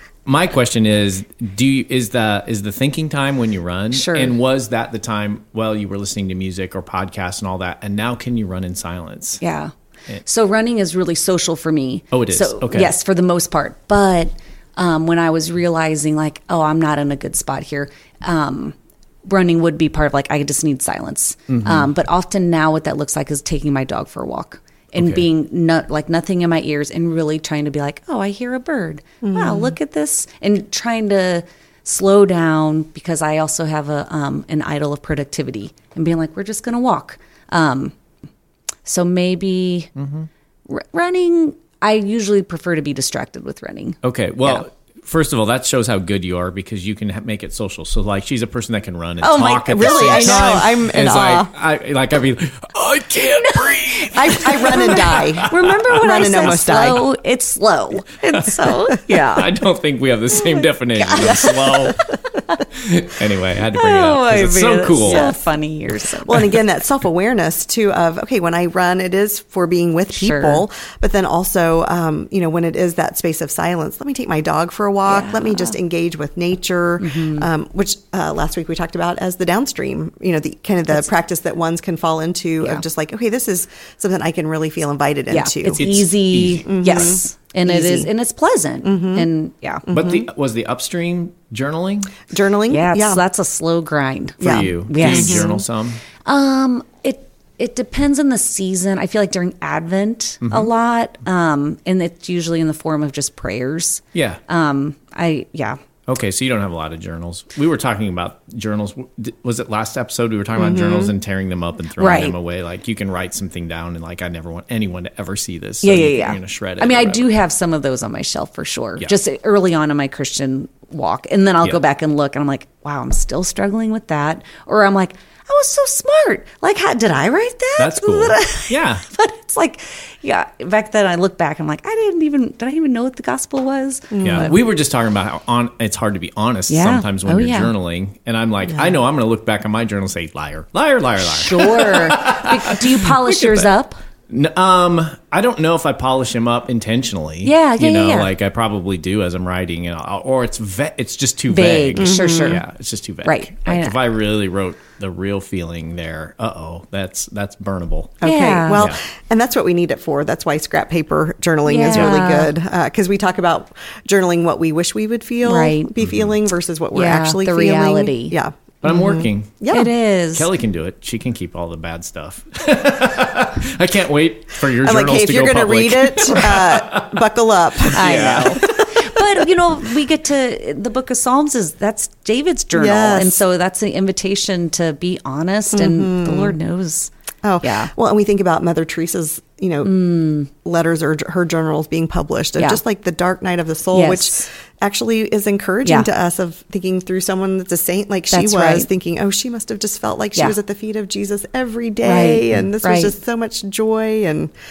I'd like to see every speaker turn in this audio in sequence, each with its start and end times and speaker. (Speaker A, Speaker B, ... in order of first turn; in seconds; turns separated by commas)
Speaker A: 0.2-9.4, Speaker B: 3.9-4.3, Speaker B: 9.4-9.7, Speaker B: 10.2-37.9, Speaker A: 12.1-12.9, Speaker A: 21.5-21.9, Speaker A: 24.9-25.2, Speaker C: 29.2-29.8, Speaker B: 38.8-39.9, Speaker A: 40.0-40.3, Speaker B: 40.7-44.6, Speaker A: 44.0-56.4, Speaker B: 49.2-50.5, Speaker C: 49.6-51.5, Speaker B: 53.5-59.5, Speaker C: 54.1-57.0, Speaker A: 58.3-62.0, Speaker B: 61.0-62.6, Speaker A: 62.7-65.4, Speaker B: 63.7-66.5, Speaker C: 65.0-65.4, Speaker C: 66.2-85.8, Speaker B: 70.1-70.6, Speaker B: 75.0-75.8, Speaker B: 77.0-77.5, Speaker B: 85.3-89.8, Speaker A: 85.8-87.2, Speaker C: 86.7-88.1, Speaker C: 88.8-89.3, Speaker C: 89.9-90.3, Speaker A: 89.9-92.2, Speaker C: 92.3-93.2, Speaker B: 92.7-95.6, Speaker A: 94.4-96.0, Speaker C: 94.4-95.5, Speaker B: 96.2-105.8, Speaker A: 100.4-100.7, Speaker A: 104.1-104.4, Speaker A: 106.1-117.3, Speaker C: 110.6-111.1, Speaker B: 112.0-112.3, Speaker B: 115.8-134.6, Speaker A: 127.8-129.0, Speaker C: 134.1-134.5, Speaker A: 134.2-143.7, Speaker B: 136.7-137.7, Speaker C: 138.7-138.9, Speaker B: 141.2-144.0, Speaker A: 144.3-158.2, Speaker B: 147.4-148.3, Speaker B: 151.5-152.6, Speaker C: 152.0-152.6, Speaker B: 153.2-153.9, Speaker C: 158.2-169.9, Speaker B: 158.2-158.8, Speaker A: 158.7-159.0, Speaker B: 161.6-162.5, Speaker B: 165.4-165.9, Speaker A: 166.0-166.3, Speaker B: 166.9-168.4, Speaker A: 168.8-169.6, Speaker B: 169.7-170.5, Speaker A: 170.3-177.2, Speaker C: 174.8-178.9, Speaker A: 177.8-178.7, Speaker B: 177.9-187.1, Speaker C: 182.7-183.4, Speaker C: 185.7-186.6, Speaker C: 187.4-204.5, Speaker B: 187.6-187.9, Speaker B: 189.8-190.5, Speaker B: 193.9-194.5, Speaker B: 198.3-198.9, Speaker B: 202.0-203.1